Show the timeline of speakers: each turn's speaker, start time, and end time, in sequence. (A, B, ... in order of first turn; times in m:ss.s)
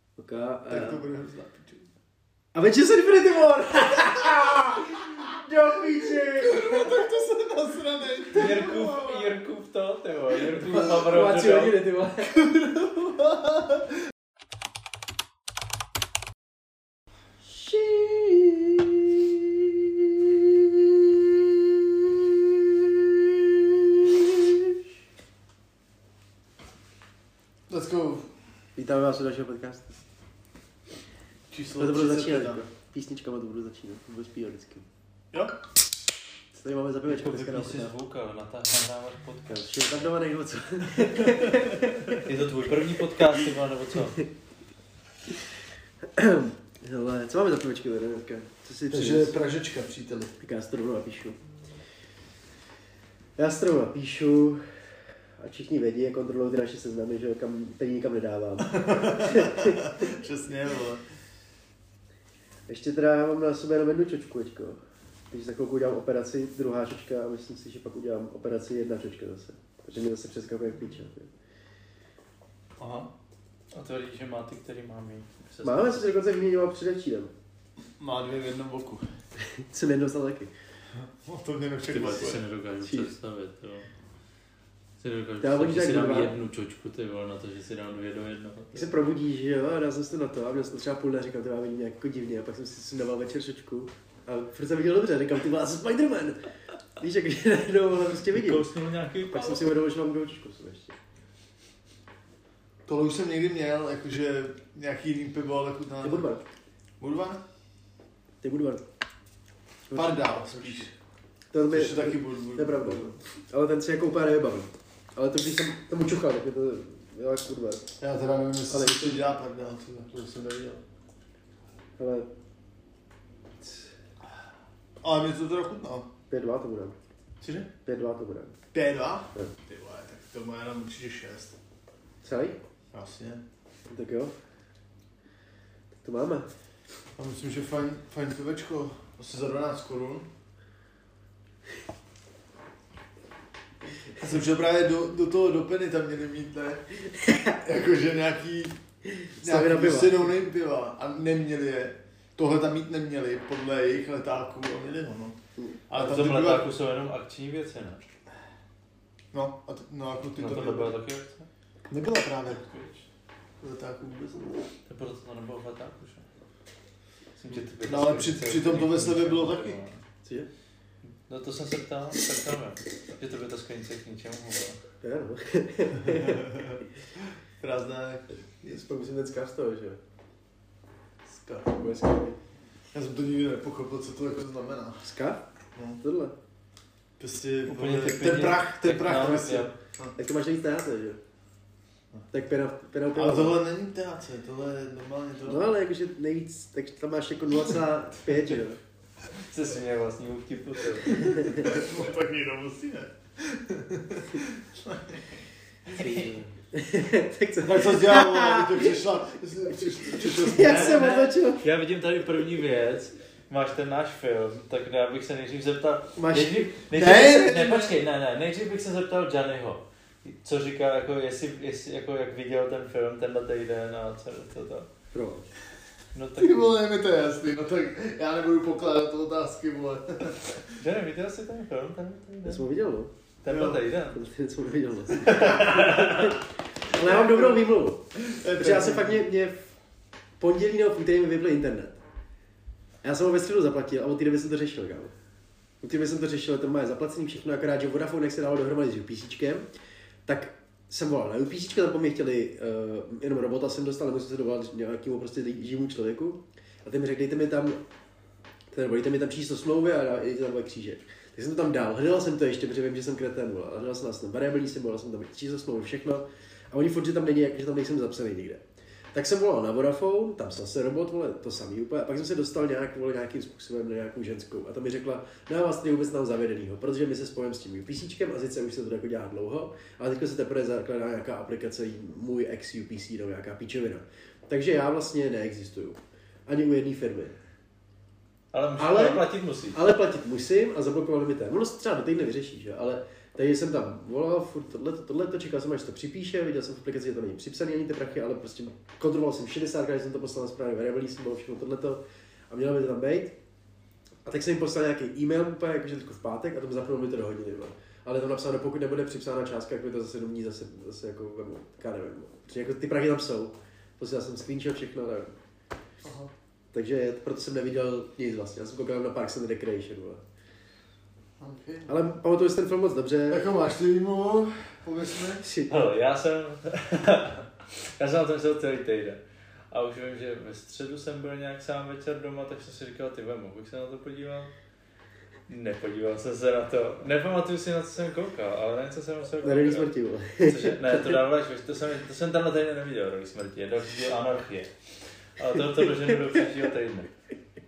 0:00.2-0:01.0 A
0:00.7-0:01.9 B
0:02.5-0:07.1 A
0:06.2-0:09.3 B
0:08.3-0:11.8 C
0:10.4-0:12.4 A
0:12.4-0:13.9 B
0:17.4-0:24.8 A
0:27.7-0:28.3 B
0:28.8-0:29.9 A
0:31.5-0:32.6 B
0:31.8-0:34.9 A
0:36.5-0:37.9 A
0:37.0-0:40.0 C
0:39.5-0:42.2 A
0:41.1-0:42.2 B
0:42.1-0:44.2 C
0:46.0-0:49.4 A
0:48.9-0:50.3 B
0:50.4-0:51.4 A
0:53.4-0:54.6 A
0:55.4-1:00.1 A
0:58.6-1:01.0 B
1:02.7-1:11.3 A
1:12.8-1:13.1 B
1:13.7-1:16.2 C
1:15.6-1:17.3 A
1:18.0-1:19.1 B
1:19.4-1:20.5 A
1:20.9-1:22.4 B
1:21.9-1:23.9 C
1:22.8-1:23.1 A
1:25.0-1:28.9 C
1:25.4-1:26.4 A
1:28.7-1:36.4 A
1:37.0-1:38.7 A
1:38.3-1:39.6 C
1:39.3-1:41.0 A
1:42.9-1:46.3 B
1:46.0-1:46.4 A
1:47.0-1:47.4 B
1:48.4-1:48.8 A
1:49.9-1:50.9 A
1:49.9-1:50.9 B
1:51.5-1:57.9 A
1:51.7-1:53.2 B
1:58.0-2:00.8 B
1:58.7-1:59.2 A
2:02.0-2:02.3 A
2:05.0-2:06.1 B
2:06.3-2:07.0 A
2:07.4-2:07.7 B
2:07.8-2:08.5 A
2:08.7-2:11.6 B
2:12.2-2:12.6 A
2:12.9-2:13.4 B
2:13.9-2:14.4 A
2:16.0-2:16.5 A
2:17.2-2:20.2 B
2:24.2-2:28.8 B
2:27.3-2:27.5 A
2:29.0-2:30.3 A
2:29.4-2:35.4 B
2:35.9-2:36.7 B
2:35.9-2:38.0 C
2:39.3-2:40.9 B
2:40.4-2:41.5 C
2:41.9-2:42.8 B
2:43.6-2:44.7 B
2:44.9-2:46.3 C
2:47.4-2:50.0 C
2:47.8-2:49.8 B
2:50.2-2:50.5 A
2:51.3-2:54.8 C
2:55.0-2:56.5 A
2:56.0-2:58.8 B
2:58.6-3:00.0 A
3:01.3-3:01.8 B
3:01.7-3:02.4 A
3:02.9-3:05.1 B
3:05.0-3:05.4 A
3:06.0-3:06.3 A
3:07.2-3:10.1 B
3:07.6-3:09.7 C
3:10.2-3:11.2 A
3:12.3-3:13.6 A
3:13.1-3:15.7 B
3:15.4-3:18.8 A
3:19.3-3:21.5 C
3:21.1-3:25.2 B
3:21.4-3:21.7 A
3:25.9-3:26.3 B
3:26.0-3:29.0 A
3:27.6-3:31.1 B
3:29.7-3:31.6 A
3:30.5-3:44.9 C
3:36.2-3:37.4 A
3:36.9-3:37.9 B
3:45.1-3:45.4 A
3:46.1-3:46.8 C
3:46.4-3:50.6 B
3:50.8-3:52.6 C
3:52.4-3:53.1 A
3:53.4-3:54.2 C
3:53.5-3:53.8 B
3:54.1-3:59.7 A
3:55.2-3:56.4 C
3:55.2-3:55.6 B
3:56.9-3:57.6 B
3:58.2-3:59.2 B
4:00.4-4:02.0 A
4:03.0-4:05.1 A
4:05.8-4:09.6 A
4:10.2-4:17.8 A
4:18.7-4:47.3 A
4:48.5-4:49.8 C
4:48.8-5:03.4 A
5:04.2-5:15.3 A
5:16.0-5:16.3 B
5:16.7-5:20.2 A
5:21.4-5:21.9 B
5:21.9-5:23.4 A
5:23.3-5:25.4 B
5:25.4-5:25.8 A
5:25.7-5:29.2 C
5:29.7-5:34.5 C
5:35.5-5:39.9 C
5:39.4-5:41.2 A
5:40.4-5:44.7 C
5:45.4-5:47.1 C